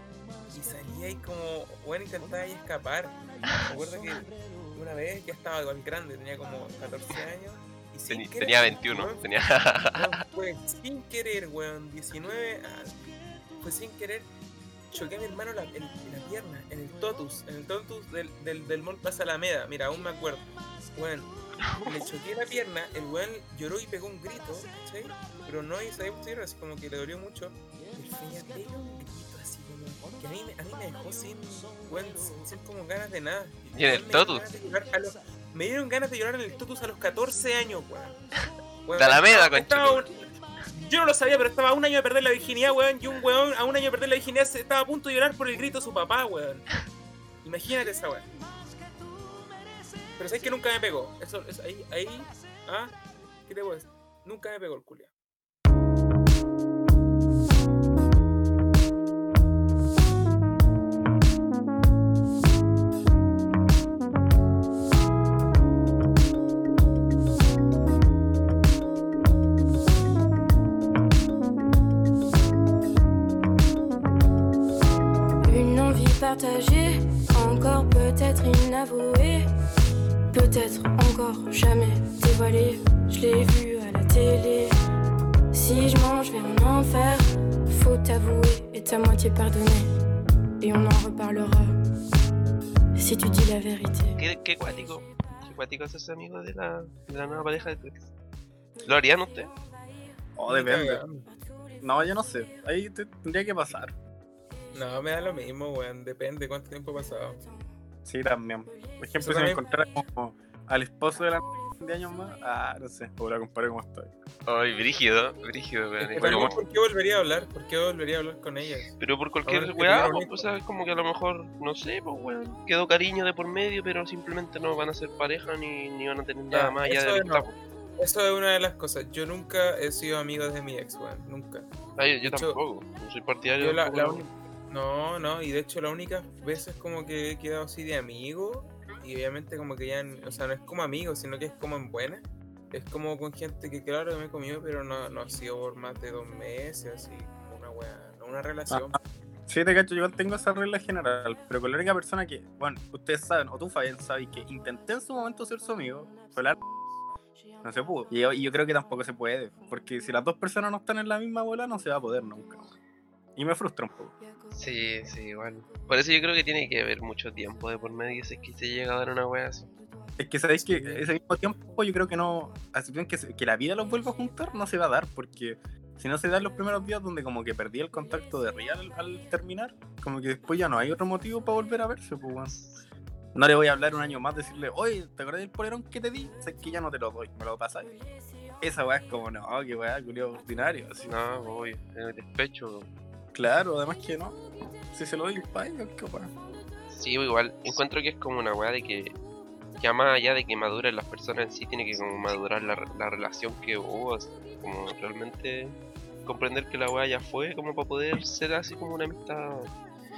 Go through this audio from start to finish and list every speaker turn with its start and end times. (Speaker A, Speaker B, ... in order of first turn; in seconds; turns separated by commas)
Speaker A: 0.5-9.3, Speaker B: 8.1-10.1, Speaker A: 9.9-13.1, Speaker A: 13.6-14.3, Speaker A: 14.9-38.2, Speaker B: 33.7-34.5, Speaker A: 38.9-46.6, Speaker B: 39.0-40.1, Speaker A: 47.4-48.3, Speaker A: 50.1-52.9, Speaker A: 53.5-55.1, Speaker C: 75.4-79.5, Speaker C: 80.3-84.7, Speaker C: 85.5-89.9, Speaker C: 90.6-91.7, Speaker C: 93.0-94.2, Speaker B: 94.2-98.1, Speaker B: 98.8-99.5, Speaker D: 100.3-101.0, Speaker A: 100.5-101.2, Speaker D: 101.8-104.0, Speaker A: 104.7-107.4, Speaker D: 108.0-114.1, Speaker A: 109.2-109.6, Speaker B: 114.5-116.6, Speaker A: 116.0-120.5, Speaker D: 116.2-116.5, Speaker B: 119.0-127.5, Speaker A: 126.5-131.7, Speaker B: 132.0-134.2, Speaker A: 132.2-132.6, Speaker A: 133.6-149.0, Speaker D: 148.7-156.6, Speaker D: 157.6-162.7, Speaker D: 163.3-164.1, Speaker B: 164.5-169.7, Speaker D: 170.2-182.6, Speaker D: 183.3-188.0, Speaker D: 188.6-191.1, Speaker B: 191.0-192.9, Speaker D: 193.3-194.4, Speaker D: 194.9-196.3, Speaker B: 196.9-199.2, Speaker B: 199.8-209.7